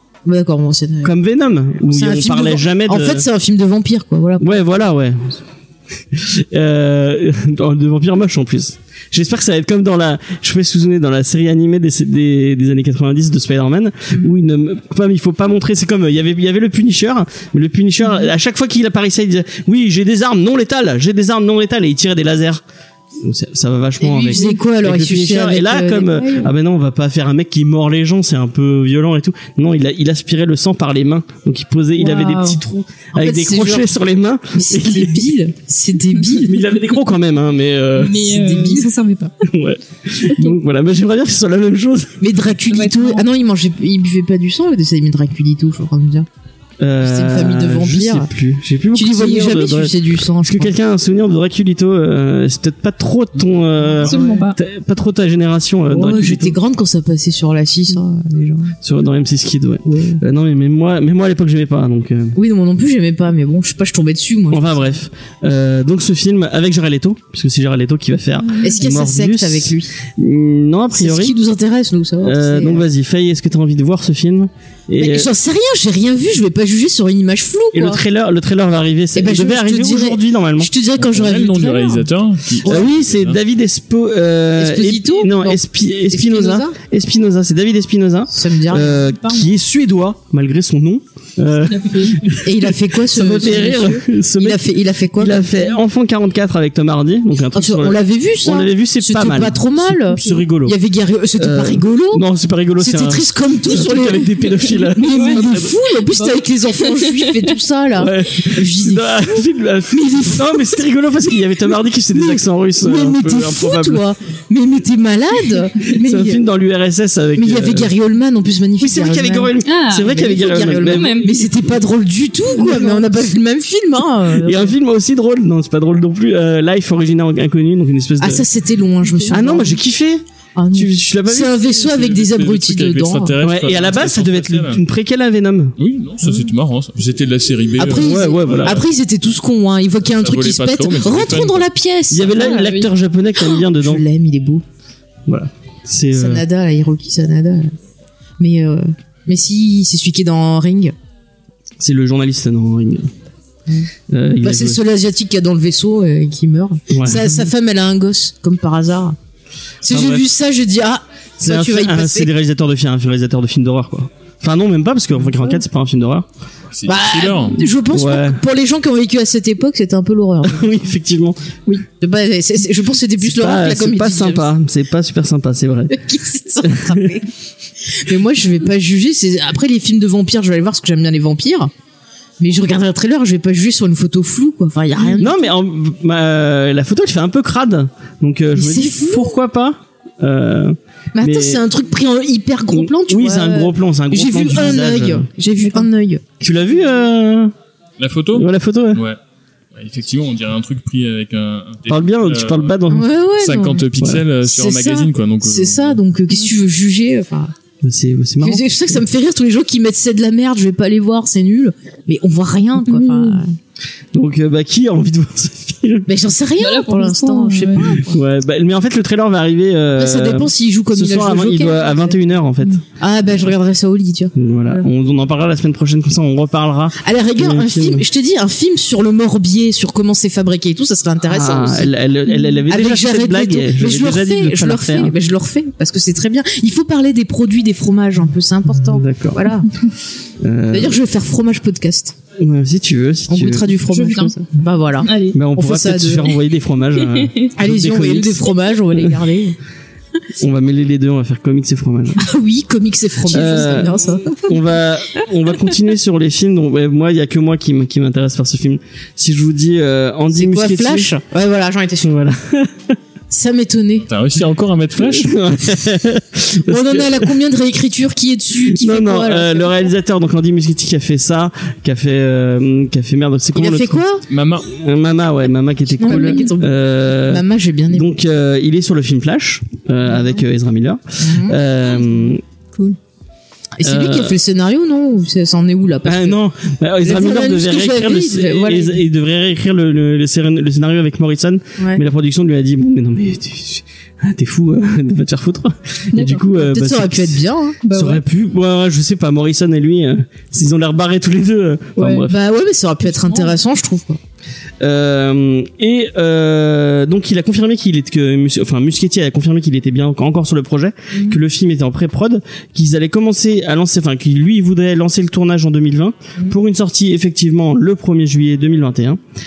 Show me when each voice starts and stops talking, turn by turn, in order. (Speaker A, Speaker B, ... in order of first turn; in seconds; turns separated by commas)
Speaker A: 0.2-1.1, Speaker B: 1.0-3.2, Speaker A: 1.9-4.7, Speaker B: 4.4-5.4, Speaker B: 6.1-22.6, Speaker B: 23.2-35.3, Speaker A: 24.0-26.5, Speaker C: 24.3-24.6, Speaker A: 32.0-32.6, Speaker A: 33.1-33.9, Speaker A: 34.5-36.6, Speaker B: 36.4-38.2, Speaker C: 38.0-39.3, Speaker A: 38.1-38.9, Speaker B: 39.4-42.3, Speaker A: 42.2-46.3, Speaker C: 42.7-43.2, Speaker B: 46.8-56.6, Speaker A: 47.0-48.3, Speaker A: 48.9-50.8, Speaker C: 54.0-54.6, Speaker A: 54.0-54.5, Speaker A: 55.9-58.8, Speaker B: 58.8-62.4, Speaker A: 59.9-60.2, Speaker A: 62.4-65.0, Speaker B: 64.5-71.3, Speaker C: 68.4-68.8, Speaker A: 68.6-69.9, Speaker A: 70.9-72.8, Speaker B: 72.2-75.3, Speaker A: 75.0-78.0, Speaker B: 77.7-80.7, Speaker A: 79.2-82.1, Speaker D: 81.0-83.4, Speaker B: 82.6-100.8, Speaker A: 84.6-86.8, Speaker A: 88.3-89.1, Speaker C: 91.7-92.3, Speaker A: 92.4-95.8, Speaker A: 97.5-102.2, Speaker B: 101.4-105.8, Speaker A: 102.8-110.7, Speaker C: 105.1-105.4, Speaker C: 106.1-107.5, Speaker B: 108.0-114.0, Speaker A: 112.1-116.4, Speaker B: 115.9-117.9, Speaker A: 117.4-124.8, Speaker B: 118.8-121.6, Speaker C: 119.6-121.4, Speaker C: 122.6-123.1, Speaker B: 124.3-128.5, Speaker A: 128.2-129.8, Speaker C: 129.0-129.4, Speaker B: 129.3-131.7, Speaker A: 130.6-133.4, Speaker D: 131.7-134.8, Speaker B: 133.4-135.8, Speaker D: 135.8-138.8, Speaker A: 136.2-136.5, Speaker A: 137.8-142.8, Speaker B: 137.9-138.8, Speaker D: 140.1-141.7, Speaker B: 142.1-144.0, Speaker C: 142.4-142.9, Speaker A: 143.4-144.6, Speaker B: 145.3-146.4, Speaker A: 146.1-147.7, Speaker A: 148.4-150.9, Speaker B: 151.8-153.1, Speaker A: 153.7-159.2, Speaker B: 154.1-154.8, Speaker B: 156.9-157.5, Speaker A: 159.8-162.3, Speaker B: 159.9-160.3, Speaker B: 161.4-166.3, Speaker A: 165.3-165.6, Speaker D: 166.7-167.7, Speaker A: 166.8-170.8, Speaker B: 167.9-168.4, Speaker B: 170.4-171.8, Speaker A: 172.0-174.5, Speaker B: 173.2-176.0, Speaker A: 175.9-177.3, Speaker B: 176.6-177.1, Speaker A: 177.9-181.7, Speaker A: 182.4-185.5, Speaker B: 185.0-191.6, Speaker A: 188.6-189.4, Speaker A: 191.2-196.2, Speaker B: 192.7-195.3, Speaker C: 195.6-195.9, Speaker B: 196.4-197.5, Speaker D: 198.0-199.2, Speaker B: 198.3-199.0, Speaker D: 199.8-202.8, Speaker B: 201.9-203.1, Speaker A: 202.9-203.9, Speaker D: 203.4-206.0, Speaker B: 204.0-204.2, Speaker A: 204.4-207.5, Speaker B: 207.8-208.6, Speaker A: 208.4-213.6, Speaker C: 212.8-213.4, Speaker B: 214.1-216.1, Speaker A: 216.1-218.2, Speaker C: 216.6-217.8, Speaker B: 218.0-222.8, Speaker A: 220.0-222.2, Speaker A: 223.0-224.9, Speaker B: 224.3-228.1, Speaker A: 227.0-231.9, Speaker B: 231.2-235.2, Speaker A: 232.7-239.7, Speaker B: 238.8-239.5, Speaker B: 240.4-241.0, Speaker A: 240.7-242.2, Speaker B: 242.4-243.7, Speaker A: 243.3-246.3, Speaker C: 243.9-244.3, Speaker C: 245.0-245.4, Speaker B: 245.3-249.2, Speaker C: 247.0-247.5, Speaker A: 247.6-249.6, Speaker B: 250.4-252.2, Speaker A: 252.2-254.5, Speaker B: 253.3-261.1, Speaker C: 253.3-253.9, Speaker A: 260.3-262.1, Speaker B: 262.0-263.0, Speaker A: 263.3-264.1, Speaker D: 264.1-265.4, Speaker B: 264.9-267.3, Speaker A: 266.7-269.9, Speaker B: 268.7-274.0, Speaker A: 273.6-274.3, Speaker D: 274.3-274.7, Speaker B: 274.6-282.4, Speaker A: 276.0-278.1, Speaker C: 276.0-276.5, Speaker A: 281.2-281.6, Speaker A: 283.8-286.4, Speaker B: 283.8-284.4, Speaker B: 286.1-302.4, Speaker A: 287.0-289.0, Speaker C: 296.1-296.4, Speaker A: 296.5-297.8, Speaker C: 297.8-298.2, Speaker C: 302.0-302.2, Speaker A: 302.3-304.2, Speaker C: 303.1-303.6, Speaker B: 304.8-319.2, Speaker A: 311.1-311.4